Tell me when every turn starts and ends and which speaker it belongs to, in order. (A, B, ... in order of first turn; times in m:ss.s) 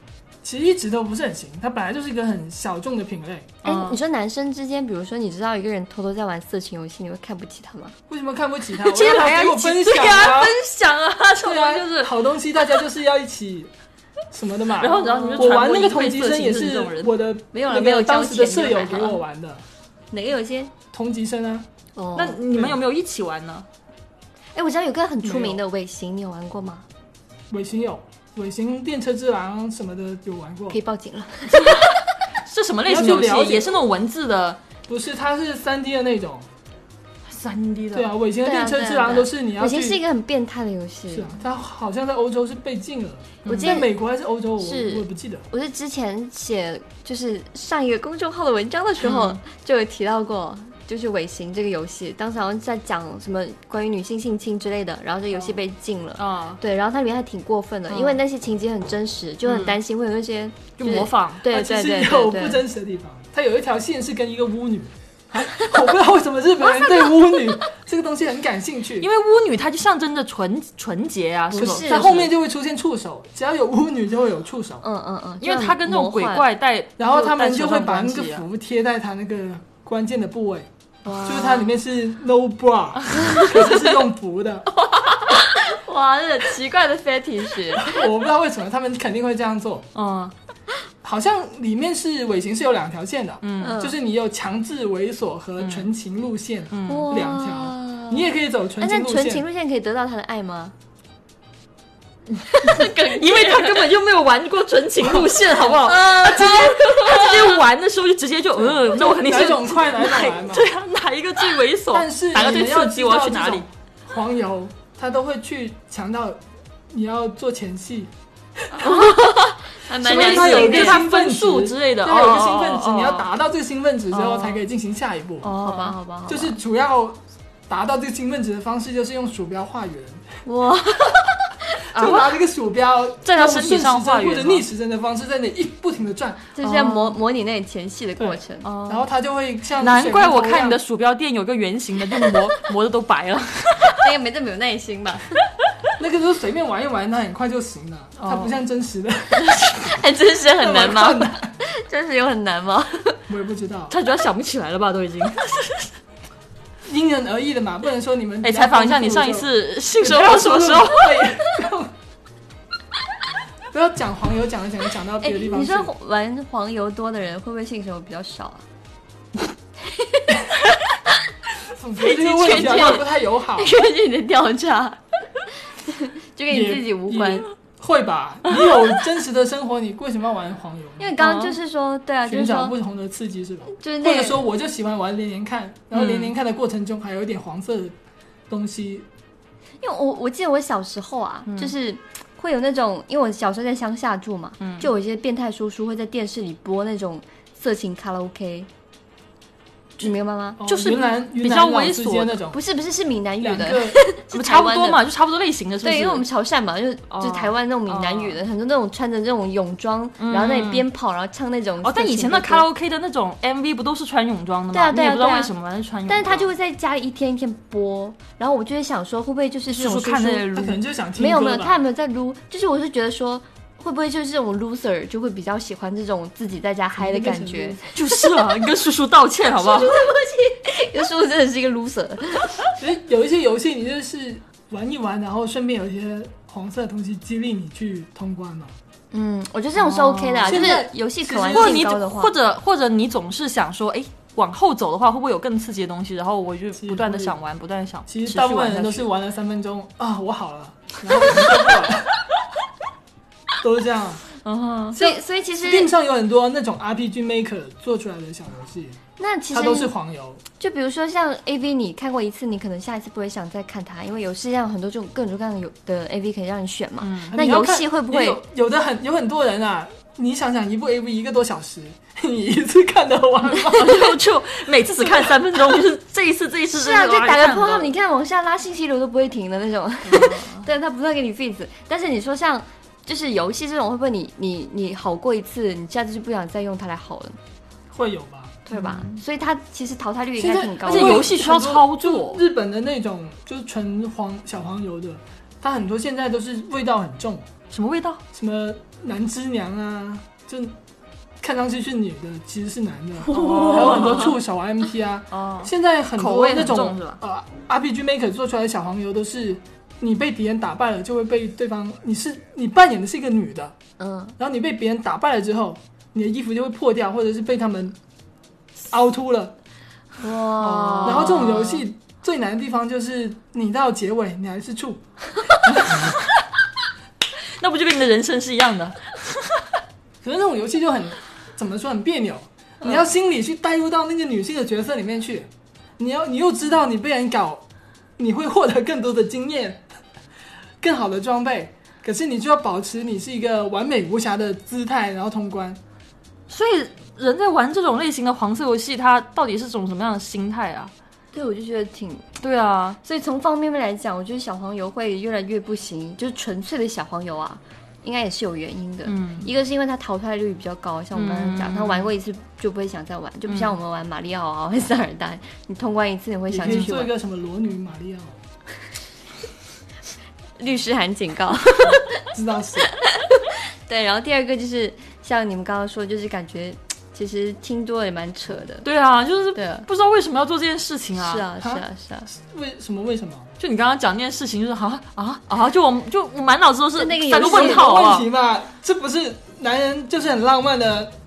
0:00.4-0:03.5 A
0:03.6-0:04.0 B
0:03.6-0:08.0 C
0:08.1-0:10.6 A
0:08.8-0:12.1 B
0:11.4-0:13.7 A
0:14.3-0:19.6 A
0:14.8-0:17.1 B
0:14.8-0:15.6 C
0:17.5-0:19.2 C
0:20.1-0:20.7 C
0:20.9-0:21.7 A
0:22.0-0:22.4 C
0:22.1-0:23.6 B
0:22.5-0:22.8 A
0:24.6-0:26.8 C
0:25.2-0:25.6 A
0:27.5-0:30.8 A
0:30.7-0:32.0 C
0:31.6-0:31.9 B
0:32.4-0:34.6 B
0:32.9-0:33.8 A
0:34.9-0:36.5 A
0:37.3-0:38.1 B
0:37.9-0:40.0 A
0:38.4-0:41.4 C
0:41.1-0:45.5 A
0:43.4-0:43.8 B
0:43.5-0:43.9 C
0:44.6-1:02.6 C
0:49.0-0:49.4 B
0:56.2-0:56.6 B
0:57.9-0:58.2 B
0:59.5-0:59.8 B
1:00.8-1:01.4 B
1:01.4-1:09.1 A
1:09.0-1:12.3 B
1:11.5-1:12.1 C
1:11.6-1:14.8 A
1:14.8-1:16.4 C
1:15.4-1:18.4 B
1:17.0-1:20.7 A
1:21.0-1:21.7 C
1:21.2-1:24.7 A
1:23.1-1:23.6 C
1:24.8-1:28.0 C
1:27.7-1:29.9 A
1:30.0-1:30.3 B
1:31.0-1:39.4 A
1:33.4-1:33.8 B
1:33.6-1:34.0 C
1:35.6-1:35.9 B
1:36.7-1:37.2 B
1:36.9-1:38.3 C
1:38.8-1:40.7 C
1:42.4-1:43.9 C
1:42.6-1:53.6 B
1:45.5-1:47.6 C
1:48.6-1:50.7 A
1:51.9-1:58.1 A
1:58.7-1:59.0 A
1:58.7-2:01.0 C
1:58.8-2:03.3 B
2:00.0-2:05.5 A
2:04.1-2:04.6 B
2:05.4-2:06.0 B
2:05.6-2:06.6 C
2:06.3-2:10.2 A
2:10.4-2:11.6 C
2:11.9-2:12.3 B
2:11.9-2:16.5 A
2:13.2-2:14.6 B
2:16.6-2:18.7 C
2:16.6-2:17.2 B
2:18.2-2:20.8 A
2:18.6-2:19.1 B
2:19.8-2:24.1 B
2:23.9-2:25.4 C
2:26.0-2:29.6 A
2:28.2-2:28.6 B
2:29.5-2:33.2 C
2:30.6-2:31.5 A
2:33.3-2:34.0 A
2:33.9-2:35.9 B
2:36.9-2:41.9 A
2:38.4-2:41.3 B
2:43.7-2:45.9 A
2:45.2-2:48.6 C
2:49.9-2:50.6 C
2:51.7-2:53.7 A
2:52.0-2:53.0 B
2:52.0-2:55.0 C
2:55.7-2:57.5 C
2:56.5-3:01.1 A
3:01.0-3:02.8 C
3:01.2-3:01.6 B
3:02.3-3:08.0 A
3:03.8-3:04.5 C
3:05.9-3:06.3 B
3:08.5-3:09.1 A
3:09.8-3:18.7 C
3:11.5-3:11.7 B
3:14.6-3:14.9 B
3:20.0-3:20.6 C
3:20.6-3:22.6 A
3:20.6-3:22.4 B
3:22.5-3:25.0 C
3:23.4-3:24.0 A
3:24.3-3:26.3 B
3:25.8-3:32.6 C
3:27.1-3:28.4 B
3:30.2-3:30.8 B
3:31.8-3:36.5 B
3:34.7-3:35.5 C
3:36.1-3:40.5 C
3:39.7-3:40.8 B
3:40.5-3:41.8 A
3:41.2-3:48.4 C
3:47.0-3:47.8 A
3:47.9-3:50.0 B
3:49.6-3:52.7 C
3:52.8-3:58.7 A
3:59.1-4:02.3 C
3:59.8-4:00.8 B
4:00.4-4:01.8 A
4:01.5-4:09.1 B
4:06.8-4:07.4 A
4:08.1-4:12.2 A
4:13.6-4:14.3 A
4:14.4-4:15.0 B
4:14.9-4:15.9 C
4:14.9-4:19.0 A
4:19.2-4:19.9 C
4:19.5-4:20.4 A
4:20.6-4:28.4 C
4:27.0-4:27.3 B
4:27.3-4:34.2 A
4:33.5-4:37.9 B
4:35.0-4:35.4 A
4:36.7-4:47.4 C
4:40.1-4:40.7 B
4:47.9-4:48.6 A
4:48.6-4:51.3 C
4:48.7-4:49.2 B
4:50.4-4:57.5 A
4:50.8-4:52.4 B
4:57.7-4:58.2 B
4:58.3-5:00.8 A
5:01.4-5:13.8 A
5:03.2-5:04.4 B
5:05.3-5:07.2 B
5:14.0-5:14.4 C
5:14.4-5:18.0 A
5:18.9-5:19.6 A
5:20.2-5:21.7 C
5:20.6-5:21.8 B
5:21.0-5:25.0 A
5:25.6-5:26.2 A
5:25.8-5:26.2 B
5:27.6-5:29.6 B
5:30.2-5:37.6 A
5:38.2-5:39.9 A
5:40.8-5:45.8 A
5:46.5-5:50.9 B
5:51.3-5:52.3 C
5:52.4-5:53.0 B
5:53.0-6:07.1 C
5:59.1-5:59.5 B
6:01.1-6:02.1 B
6:03.5-6:03.8 B
6:06.5-6:08.4 A
6:10.6-6:12.2 C
6:12.2-6:12.9 A
6:13.0-6:18.9 C
6:18.8-6:21.5 B
6:19.6-6:19.9 C
6:21.2-6:22.3 C
6:21.6-6:23.5 A
6:23.6-6:28.3 B
6:27.0-6:27.9 C
6:27.3-6:31.1 A